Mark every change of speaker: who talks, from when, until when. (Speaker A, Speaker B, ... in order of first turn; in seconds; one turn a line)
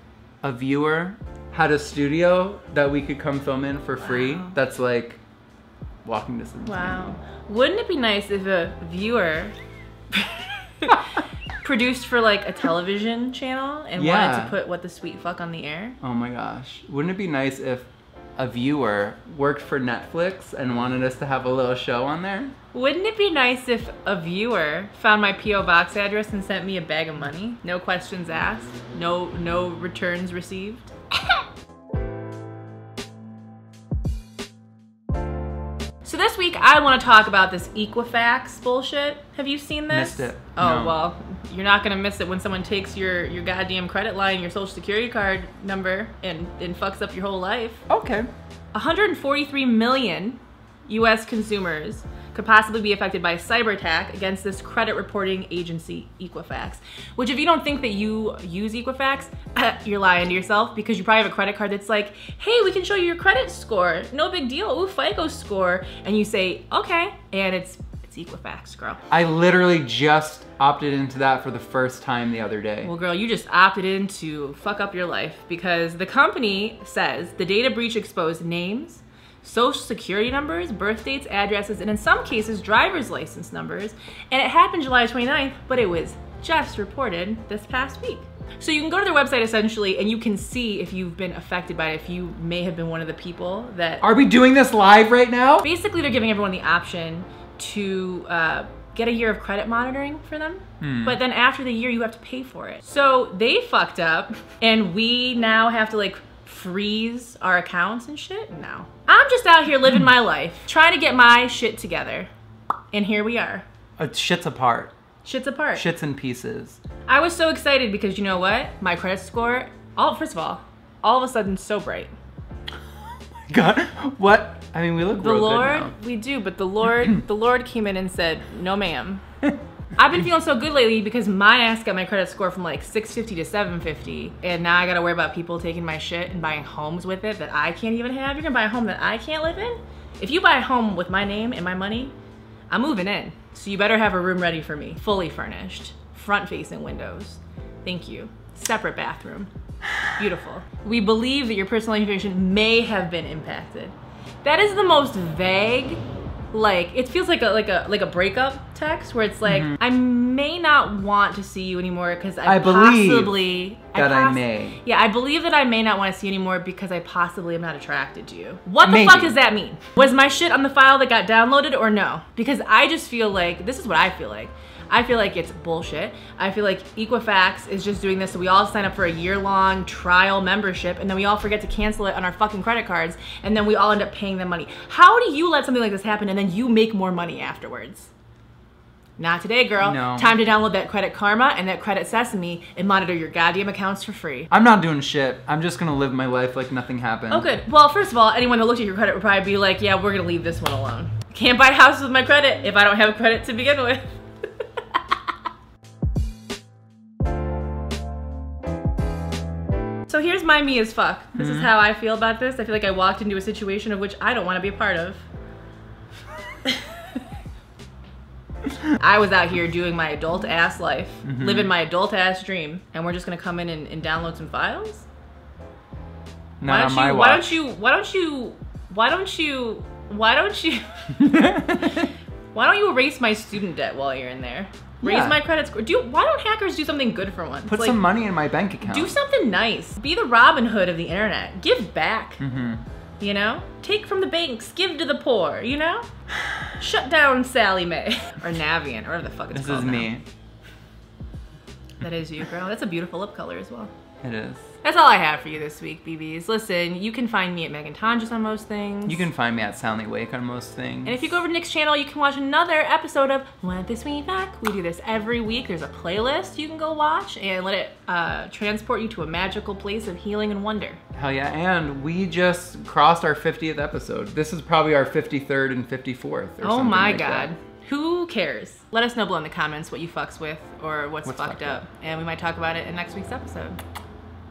Speaker A: 0.4-5.2
Speaker B: 4.0-4.5
Speaker A: 6.0-7.2
Speaker B: 6.7-9.6
Speaker B: 10.1-11.1
Speaker B: 11.6-16.0
Speaker A: 14.0-14.6
Speaker A: 16.0-22.5
Speaker B: 22.7-30.9
Speaker B: 36.0-47.9
Speaker A: 39.9-41.0
Speaker A: 47.9-48.3
Speaker B: 48.7-69.0
Speaker A: 69.1-72.9
Speaker B: 72.8-94.0
Speaker A: 94.0-95.7
Speaker B: 95.6-112.3
Speaker A: 100.8-101.2
Speaker B: 112.9-113.7
Speaker A: 114.0-114.9
Speaker B: 115.2-115.8
Speaker A: 115.7-116.8
Speaker B: 117.1-122.1
Speaker A: 123.5-125.9
Speaker B: 125.2-129.2
Speaker B: 130.0-142.1
Speaker B: 142.7-149.5
Speaker B: 150.2-156.0
Speaker B: 156.5-188.1
Speaker A: 159.5-159.8
Speaker A: 162.4-164.8
Speaker A: 168.8-169.4
Speaker B: 189.2-194.5
Speaker A: 189.8-190.4
Speaker A: 194.5-197.5
Speaker B: 197.3-204.1
Speaker B: 210.1-215.2
Speaker A: 211.4-211.7
Speaker B: 216.7-217.2
Speaker B: 218.9-225.1
Speaker A: 221.2-221.7
Speaker A: 226.6-227.5
Speaker B: 226.6-230.8
Speaker A: 231.2-232.1
Speaker B: 232.5-238.0
Speaker A: 235.0-235.4
Speaker A: 237.7-239.2
Speaker B: 238.8-242.4
Speaker A: 242.4-242.8
Speaker B: 243.2-246.1
Speaker B: 246.8-250.1
Speaker A: 249.5-250.2
Speaker B: 252.0-253.9
Speaker A: 254.2-254.6
Speaker B: 254.8-259.3
Speaker A: 259.1-261.3
Speaker B: 261.1-271.0
Speaker A: 271.1-277.5
Speaker B: 276.6-283.8
Speaker A: 281.2-281.8